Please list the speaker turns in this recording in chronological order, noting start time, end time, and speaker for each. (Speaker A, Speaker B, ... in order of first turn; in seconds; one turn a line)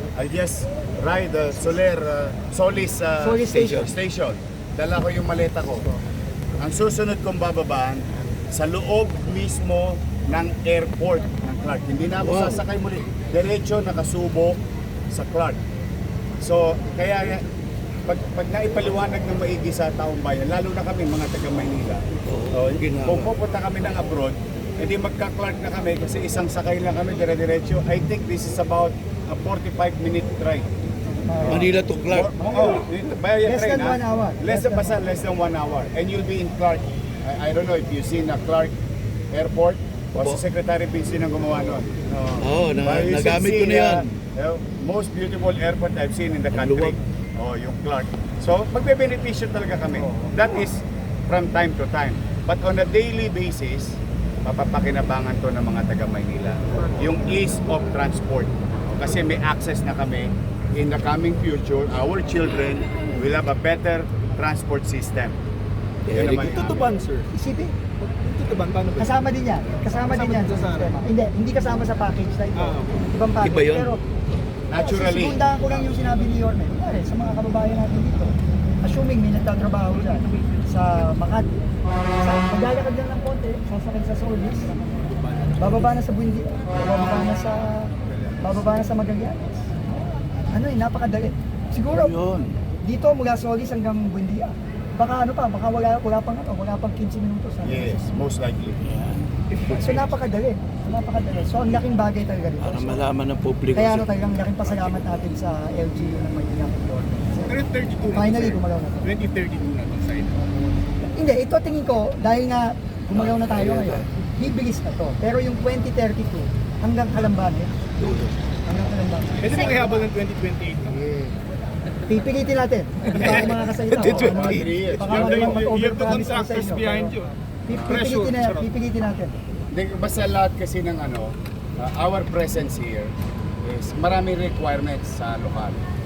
Speaker A: 0.1-5.9
Speaker B: 3.2-3.8
Speaker C: 3.5-3.9
Speaker A: 6.6-14.6
Speaker C: 12.2-12.6
Speaker A: 15.1-15.6
Speaker A: 16.4-17.4
Speaker A: 18.1-30.7
Speaker C: 22.2-23.3
Speaker B: 31.3-31.6
Speaker A: 31.4-38.7
Speaker C: 31.5-32.4
Speaker B: 33.4-35.1
Speaker A: 39.3-65.4
Speaker C: 40.2-40.4
Speaker C: 42.4-44.1
Speaker C: 46.5-47.0
Speaker C: 66.0-66.7
Speaker A: 66.1-67.0
Speaker D: 66.4-67.3
Speaker B: 67.3-67.7
Speaker D: 68.0-69.1
Speaker B: 69.0-74.0
Speaker D: 69.9-70.9
Speaker D: 72.6-73.0
Speaker C: 73.4-74.0
Speaker A: 74.7-75.4
Speaker B: 74.7-81.5
Speaker B: 82.2-84.8
Speaker D: 84.9-85.9
Speaker B: 85.6-89.6
Speaker B: 90.5-92.1
Speaker C: 91.9-92.6
Speaker B: 92.8-98.0
Speaker A: 97.6-98.8
Speaker C: 98.8-99.3
Speaker D: 99.5-100.2
Speaker B: 99.7-103.1
Speaker C: 102.6-105.2
Speaker B: 103.7-109.1
Speaker D: 107.4-110.7
Speaker B: 111.1-117.7
Speaker C: 113.1-114.0
Speaker C: 118.0-118.3
Speaker B: 118.7-119.8
Speaker D: 119.4-121.1
Speaker C: 120.9-121.3
Speaker B: 122.1-127.1
Speaker D: 123.1-123.5
Speaker C: 123.7-125.1
Speaker A: 124.0-125.7
Speaker D: 125.0-127.3
Speaker B: 127.7-129.4
Speaker A: 127.7-128.1
Speaker D: 127.9-128.7
Speaker A: 129.7-135.8